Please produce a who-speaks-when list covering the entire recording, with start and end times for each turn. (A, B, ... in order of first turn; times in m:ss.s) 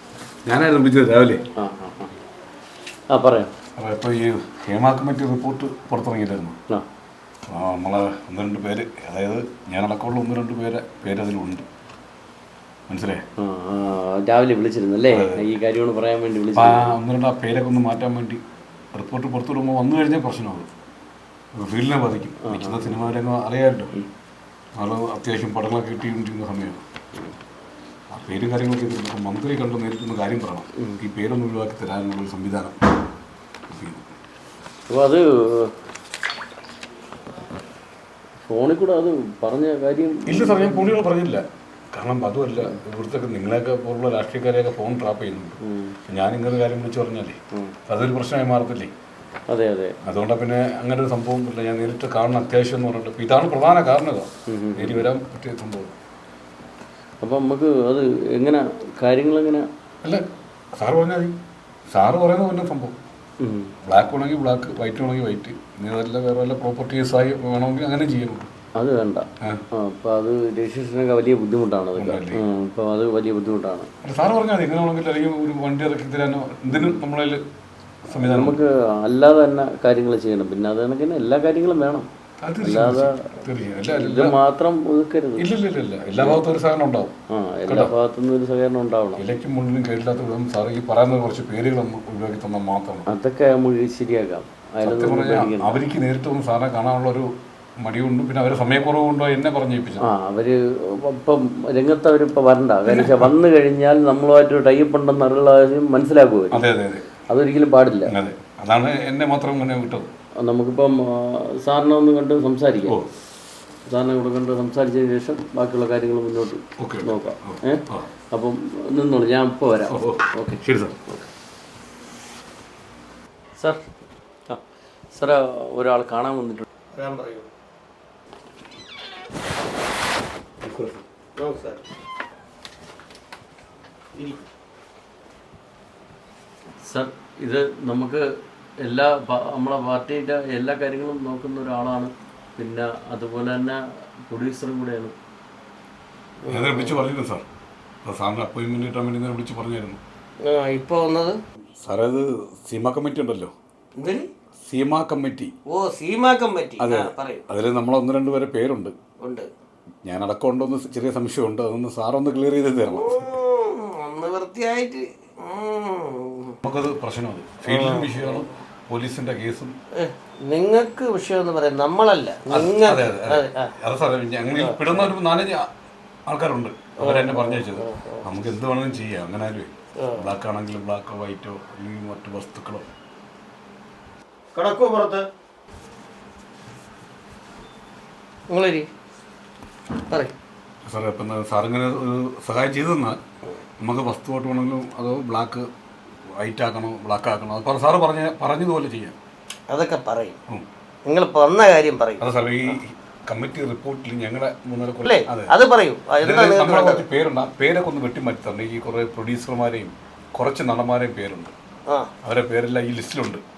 0:00.4-0:01.4 A
0:01.6-0:02.1 B
0:03.1-0:03.5 B
0:03.8-0:06.6 A
0:07.5-0:11.6 A
0:12.9-0:13.2 A
0:13.4-0:17.0 B
0:15.1-0:15.5 A
0:16.5-0:18.4 A
0:18.9-0:20.7 A
0:21.5-0:23.9 A
0:22.4-0:23.1 B
0:24.8-0:26.8 A
0:28.1-0:32.8 A
0:33.7-0:34.0 A
0:34.9-0:35.7 B
0:38.4-0:41.0 B
0:40.2-0:48.9 A
0:45.6-0:46.0 B
0:49.5-0:50.0 B
0:50.0-0:56.0 A
0:54.5-0:55.1 B
0:57.2-0:59.6 B
1:00.8-1:01.4 A
1:01.9-1:03.0 A
1:03.4-1:03.7 B
1:03.8-1:08.5 A
1:08.8-1:13.9 B
1:11.9-1:12.4 A
1:14.0-1:17.4 A
1:16.7-1:17.0 B
1:18.1-1:18.6 A
1:18.1-1:22.1 B
1:22.4-1:24.4 A
1:22.6-1:23.3 B
1:23.9-1:25.5 B
1:25.4-1:27.1 A
1:26.1-1:26.4 B
1:27.3-1:29.2 B
1:27.7-1:27.9 A
1:29.2-1:33.1 A
1:33.1-1:35.8 B
1:34.8-1:40.0 A
1:40.0-1:46.6 B
1:42.8-1:43.3 A
1:46.5-1:47.0 A
1:47.3-1:48.1 B
1:48.1-1:50.1 A
1:50.4-1:53.0 B
1:53.9-2:01.3 B
1:56.8-1:58.1 A
1:59.9-2:01.0 A
2:05.1-2:06.7 B
2:06.9-2:07.5 C
2:10.6-2:11.0 A
2:11.4-2:11.8 C
2:14.2-2:14.4 C
2:16.8-2:18.2 B
2:18.8-2:25.1 B
2:26.4-2:27.0 C
2:26.5-2:27.4 A
2:28.0-2:30.0 A
2:30.4-2:31.4 C
2:31.8-2:33.5 A
2:34.0-2:34.3 C
2:34.6-2:35.5 A
2:35.7-2:37.4 C
2:36.8-2:38.9 A
2:39.2-2:39.5 C
2:40.0-2:43.3 A
2:42.9-2:46.6 C
2:46.6-2:49.7 A
2:47.6-2:48.5 C
2:50.0-2:53.7 C
2:52.5-2:55.7 A
2:54.6-2:55.0 C
2:56.3-3:02.9 A
2:57.0-2:58.3 C
3:00.0-3:00.3 C
3:04.5-3:05.2 C
3:08.5-3:08.9 C
3:10.8-3:13.2 A
3:13.8-3:15.7 A
3:16.3-3:19.2 A
3:19.7-3:20.4 C
3:21.0-3:22.2 C
3:22.2-3:25.5 A
3:25.0-3:27.0 C
3:26.2-3:31.5 A
3:32.2-3:33.4 A